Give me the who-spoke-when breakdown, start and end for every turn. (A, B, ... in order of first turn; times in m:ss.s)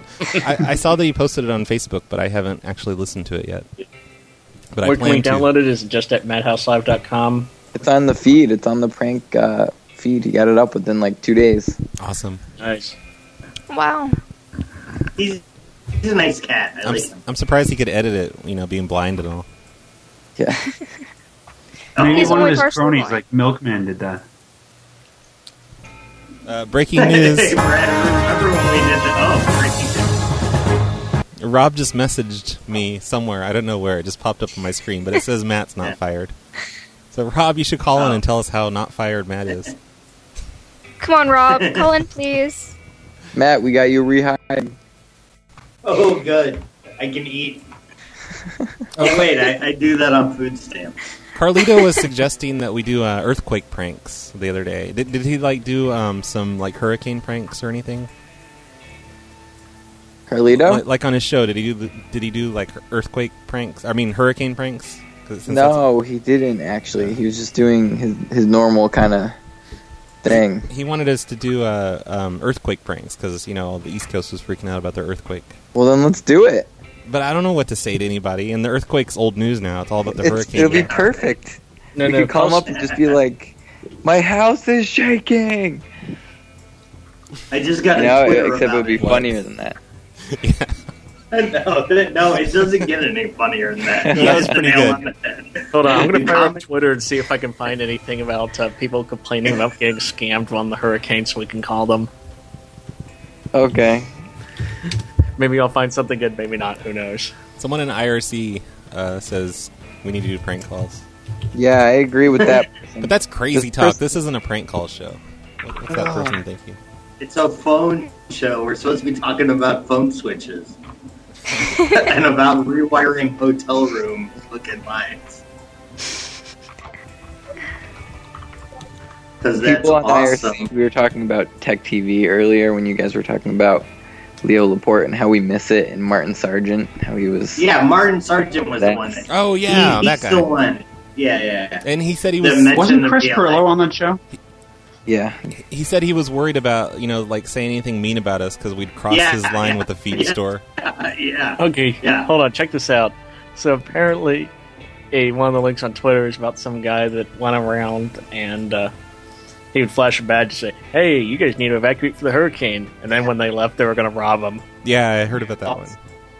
0:00.4-0:03.7 A
0:04.7-0:05.5 A
0:04.8-0:07.5 B
0:07.7-0:11.8 C
0:12.0-0:12.4 A
0:12.6-0:12.9 B
0:13.7-0:14.2 D
0:15.2-0:15.4 E
0:16.0-0:17.2 E
0:16.8-0:19.4 A
0:20.4-0:20.6 C
0:21.9-0:22.6 E
0:22.0-0:24.2 F
0:22.0-0:23.2 D
0:26.4-0:27.6 A
0:27.0-0:30.2 E
0:31.4-0:36.3 A
0:37.1-0:39.7 A
0:37.9-0:38.2 E
0:41.0-0:42.7 D
0:41.5-0:41.9 E
0:43.3-0:44.7 C
0:45.8-0:47.6 E
0:49.0-0:49.2 A
0:49.0-0:51.0 E
0:51.3-0:58.1 A
1:00.3-1:00.8 C
1:00.5-1:05.8 A
1:05.5-1:09.4 C
1:10.2-1:10.7 C
1:10.3-1:15.6 A
1:15.7-1:16.7 C
1:17.0-1:21.0 A
1:20.1-1:25.8 C
1:20.4-1:21.3 E
1:22.0-1:22.6 B
1:22.5-1:23.2 E
1:27.5-1:29.2 E
1:27.9-1:29.8 C
1:29.0-1:29.3 A
1:30.3-1:30.8 A
1:31.3-1:36.6 E
1:34.0-1:34.5 C
1:34.1-1:35.0 A
1:35.7-1:42.1 B
1:43.5-1:44.1 C
1:45.4-1:47.3 B
1:47.6-1:51.0 A
1:51.5-1:54.0 C
1:53.0-1:56.8 A
1:55.9-1:56.4 C
1:57.2-2:00.8 E
2:01.8-2:05.4 E
2:09.4-2:10.7 E
2:09.6-2:13.9 C
2:14.4-2:17.6 C
2:17.6-2:21.8 E
2:18.8-2:19.2 C
2:19.3-2:20.5 A
2:21.8-2:22.7 A
2:22.4-2:23.6 E
2:22.7-2:24.2 F
2:25.1-2:25.5 C
2:25.7-2:30.6 A
2:29.1-2:32.3 E
2:31.6-2:34.5 B
2:35.1-2:38.9 B
2:39.7-2:44.6 B
2:44.8-2:46.0 A